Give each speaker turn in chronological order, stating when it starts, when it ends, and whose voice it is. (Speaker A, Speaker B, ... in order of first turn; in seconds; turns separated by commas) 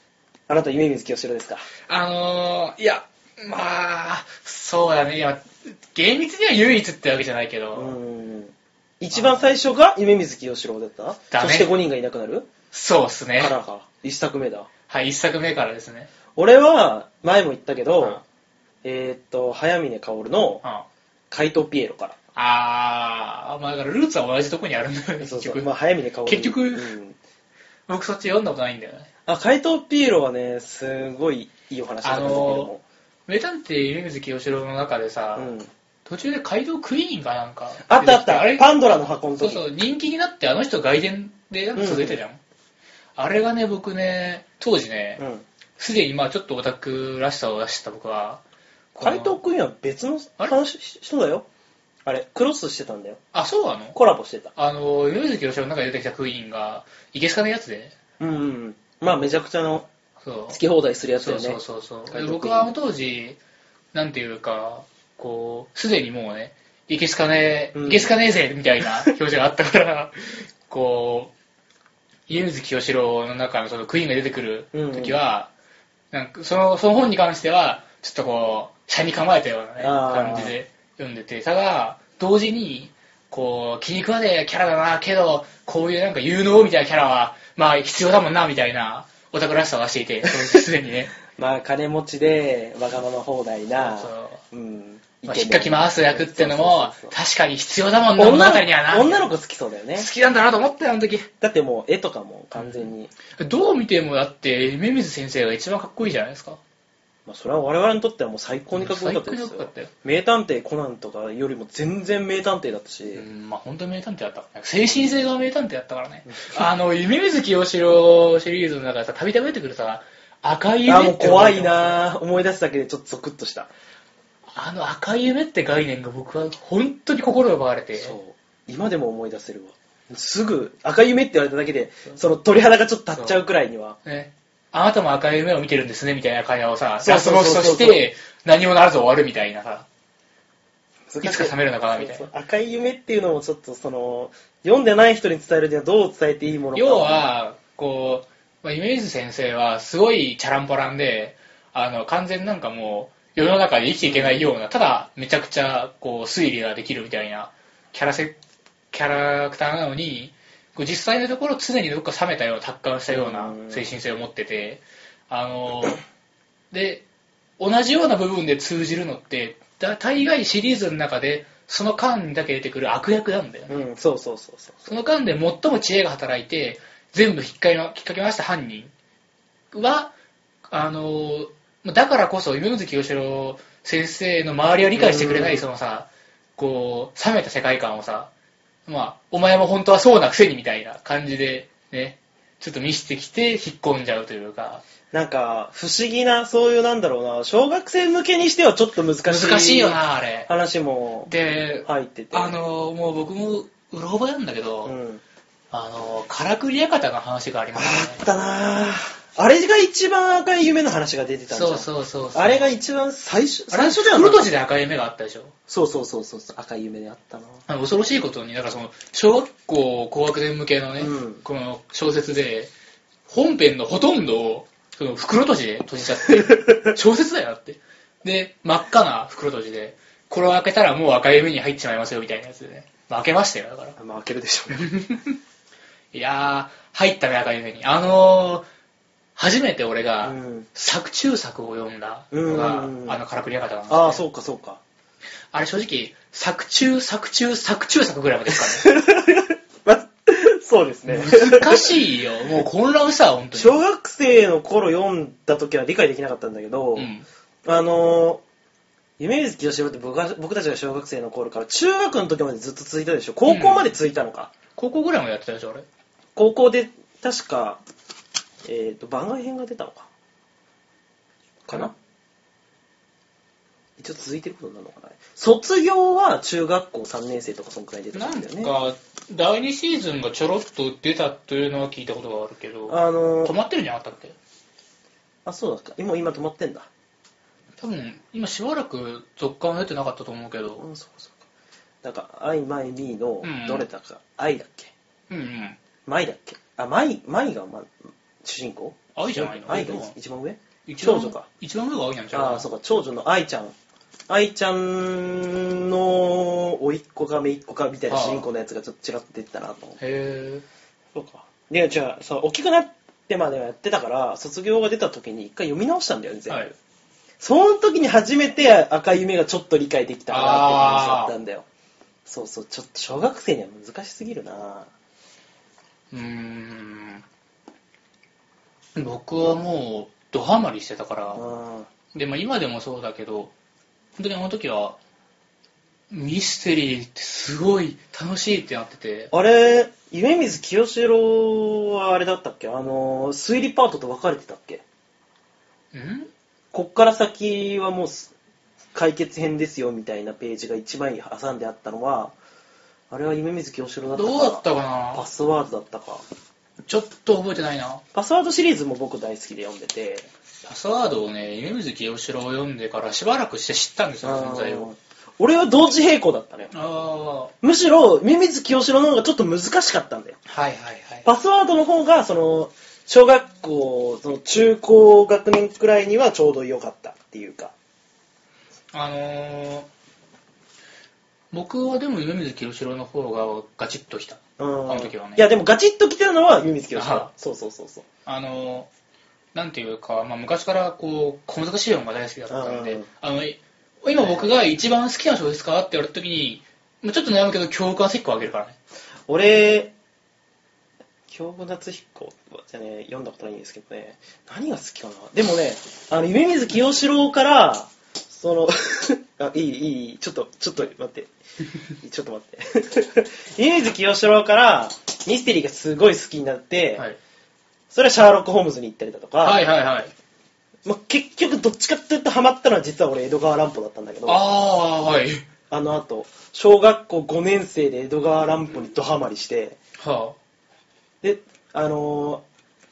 Speaker A: 0.5-1.7, Speaker B: 1.9-7.9, Speaker A: 7.7-12.5, Speaker B: 9.1-9.4, Speaker B: 11.3-11.7, Speaker B: 12.7-13.5, Speaker A: 13.4-14.7, Speaker B: 14.9-16.1, Speaker A: 16.4-18.2, Speaker A: 18.8-20.6, Speaker A: 21.3-22.1, Speaker B: 22.3-25.6, Speaker A: 25.2-27.1, Speaker B: 26.3-26.9, Speaker B: 27.9-29.1, Speaker A: 29.2-32.8, Speaker B: 32.0-32.7, Speaker B: 33.3-35.5, Speaker A: 35.4-35.7, Speaker B: 36.0-38.7, Speaker A: 37.8-39.6, Speaker B: 39.4-42.4, Speaker A: 41.8-42.2, Speaker B: 43.1-45.2, Speaker A: 45.2-45.4, Speaker B: 45.8-48.4, Speaker B: 48.9-49.4, Speaker A: 49.0-51.5, Speaker A: 52.0-53.2, Speaker B: 53.3-54.0, Speaker A: 53.9-54.5, Speaker B: 54.5-58.0, Speaker A: 58.2-59.9, Speaker B: 60.2-60.6, Speaker A: 60.5-62.7, Speaker B: 61.2-63.4, Speaker B: 63.9-71.3, Speaker A: 67.7-68.1, Speaker B: 72.3-75.5, Speaker A: 74.7-75.2, Speaker B: 76.1-91.1, Speaker A: 79.8-80.6, Speaker A: 90.3-90.6, Speaker A: 91.3-97.2, Speaker B: 93.8-94.4, Speaker B: 95.2-99.3, Speaker A: 98.2-100.1, Speaker B: 100.0-101.3, Speaker A: 101.4-103.1, Speaker B: 102.6-106.6, Speaker A: 107.3-113.2, Speaker B: 108.7-109.9, Speaker B: 113.1-122.0, Speaker A: 116.3-116.5, Speaker A: 120.9-123.7, Speaker B: 124.5-128.2, Speaker A: 128.0-134.0, Speaker B: 133.1-133.4, Speaker B: 134.0-139.9, Speaker A: 137.0-138.0, Speaker A: 141.1-147.3, Speaker B: 141.2-142.3, Speaker B: 146.7-158.3, Speaker A: 154.0-154.4, Speaker B: 158.9-166.0, Speaker A: 163.1-163.9, Speaker B: 166.7-167.0, Speaker B: 167.6-173.8, Speaker A: 173.7-174.9, Speaker B: 174.8-178.9, Speaker B: 179.7-180.1, Speaker B: 180.7-188.3, Speaker A: 184.9-185.6, Speaker B: 188.9-194.8, Speaker A: 195.1-201.3, Speaker B: 199.2-200.5, Speaker B: 201.3-204.9, Speaker A: 201.8-202.6, Speaker A: 204.8-205.2, Speaker B: 205.7-208.2, Speaker A: 207.7-214.5, Speaker B: 211.5-212.7, Speaker B: 213.7-215.5, Speaker A: 215.7-217.6, Speaker B: 217.7-222.7, Speaker A: 221.0-221.4, Speaker B: 223.3-234.0, Speaker A: 226.2-226.9, Speaker A: 234.0-234.9, Speaker B: 234.7-235.4, Speaker B: 236.1-238.7, Speaker B: 239.3-244.2, Speaker A: 240.2-240.7, Speaker A: 242.3-243.2, Speaker A: 243.9-244.8, Speaker B: 245.5-248.9, Speaker A: 248.5-251.9, Speaker B: 251.1-253.8, Speaker A: 253.5-257.1, Speaker B: 256.9-257.2, Speaker A: 257.6-258.4, Speaker A: 259.2-264.5, Speaker B: 263.5-263.9, Speaker B: 264.8-265.8, Speaker A: 266.4-267.8, Speaker A: 268.6-270.1, Speaker A: 271.6-271.9, Speaker A: 274.0-278.7, Speaker B: 278.1-284.4, Speaker A: 282.9-283.5, Speaker A: 285.4-286.9, Speaker B: 287.8-290.8, Speaker A: 290.8-291.4, Speaker A: 292.0-294.9, Speaker B: 293.4-293.9, Speaker B: 295.3-295.8, Speaker A: 296.1-301.5, Speaker B: 299.1-300.1, Speaker B: 300.9-302.7, Speaker A: 302.3-303.7, Speaker A: 304.3-310.0, Speaker B: 308.1-308.5, Speaker B: 310.0-310.6, Speaker A: 311.1-316.7, Speaker A: 317.4-321.6, Speaker B: 320.3-321.3, Speaker A: 322.2-324.9, Speaker B: 326.1-327.2, Speaker B: 328.9-331.4, Speaker A: 331.3-331.9, Speaker B: 332.1-333.5, Speaker B: 334.2-335.0, Speaker B: 336.1-339.3, Speaker A: 339.3-344.8, Speaker B: 345.9-346.3, Speaker A: 346.7-348.3, Speaker A: 348.9-352.3, Speaker A: 353.1-356.2, Speaker B: 354.1-355.2, Speaker B: 356.9-358.0, Speaker A: 358.1-360.3, Speaker B: 360.6-364.9, Speaker A: 364.2-366.7, Speaker B: 366.7-367.5, Speaker A: 367.6-370.4, Speaker B: 370.4-371.2, Speaker A: 371.2-377.7, Speaker B: 378.9-379.9, Speaker B: 381.5-385.5, Speaker A: 384.6-388.0, Speaker B: 386.9-387.3, Speaker B: 388.2-388.9, Speaker B: 389.5-398.8, Speaker A: 392.5-393.1, Speaker A: 394.2-394.5, Speaker A: 399.3-399.9, Speaker A: 401.3-411.3, Speaker A: 412.0-417.1, Speaker A: 417.9-419.6, Speaker B: 419.4-420.1, Speaker A: 420.8-424.4, Speaker B: 424.2-425.4, Speaker A: 425.7-429.8, Speaker B: 430.0-430.4, Speaker A: 431.2-432.4